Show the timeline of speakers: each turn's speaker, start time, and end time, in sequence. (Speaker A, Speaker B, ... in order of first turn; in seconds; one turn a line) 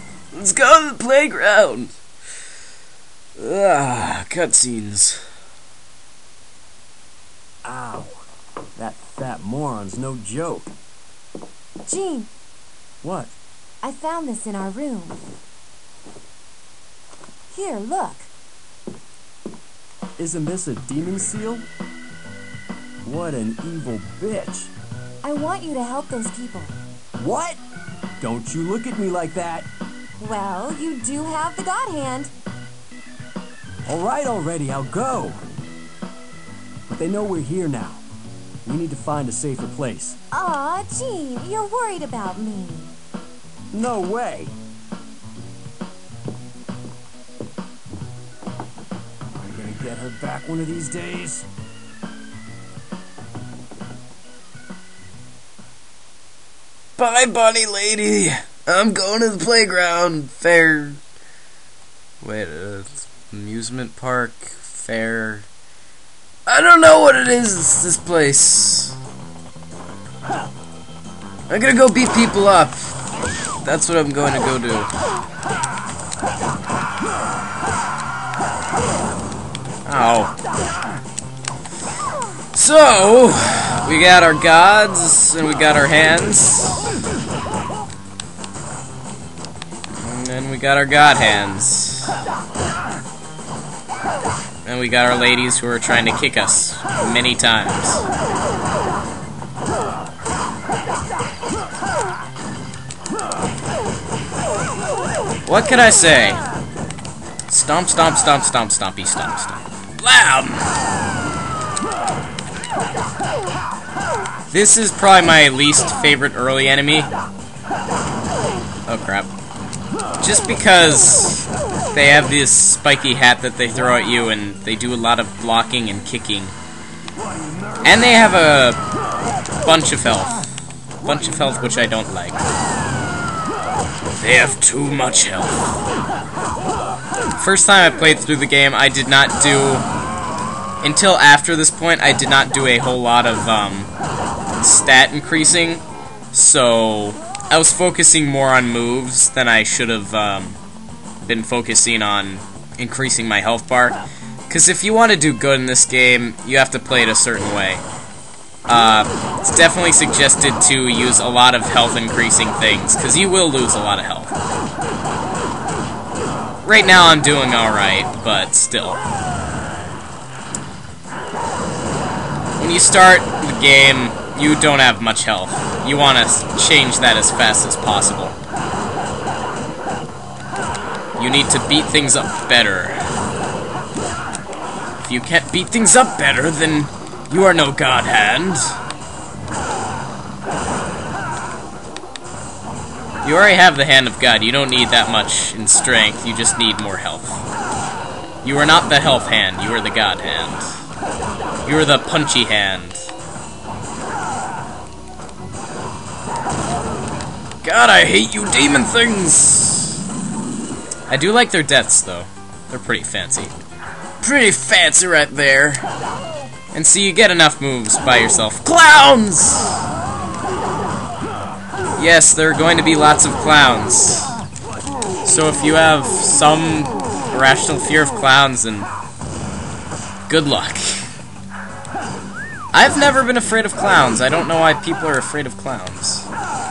Speaker A: 0.3-2.0
Speaker A: 3.4-5.2
Speaker B: 7.6-8.2
Speaker B: 8.8-10.7
Speaker C: 11.8-12.3
Speaker B: 13.0-13.4
Speaker C: 13.8-15.2
Speaker C: 17.5-18.3
Speaker B: 20.2-21.7
Speaker B: 23.1-24.7
Speaker C: 25.2-26.7
Speaker B: 27.2-27.6
Speaker B: 28.2-29.7
Speaker C: 30.2-32.3
Speaker B: 33.9-35.4
Speaker B: 36.9-38.0
Speaker B: 38.6-40.2
Speaker C: 40.3-42.9
Speaker B: 43.7-44.5
Speaker B: 49.4-51.5
Speaker A: 57.0-61.0
Speaker A: 62.2-65.5
Speaker A: 66.5-69.0
Speaker A: 71.5-73.0
Speaker A: 73.6-74.9
Speaker A: 79.9-80.3
Speaker A: 82.5-86.9
Speaker A: 90.0-92.2
Speaker A: 94.7-98.1
Speaker A: 105.5-106.4
Speaker A: 107.5-110.7
Speaker A: 114.5-117.1
Speaker A: 118.9-119.3
Speaker A: 120.2-126.5
Speaker A: 127.8-128.8
Speaker A: 129.6-130.4
Speaker A: 131.0-132.4
Speaker A: 134.2-135.8
Speaker A: 137.4-139.9
Speaker A: 140.8-143.9
Speaker A: 144.6-150.6
Speaker A: 151.2-157.8
Speaker A: 158.7-164.3
Speaker A: 166.6-169.0
Speaker A: 172.6-178.3
Speaker A: 181.2-183.1
Speaker A: 185.0-188.8
Speaker A: 193.2-197.4
Speaker A: 198.4-200.7
Speaker A: 201.7-203.1
Speaker A: 207.6-210.0
Speaker A: 211.1-213.5
Speaker A: 214.2-215.9
Speaker A: 216.7-219.8
Speaker A: 222.0-224.4
Speaker A: 225.2-228.9
Speaker A: 230.3-231.1
Speaker A: 232.7-236.3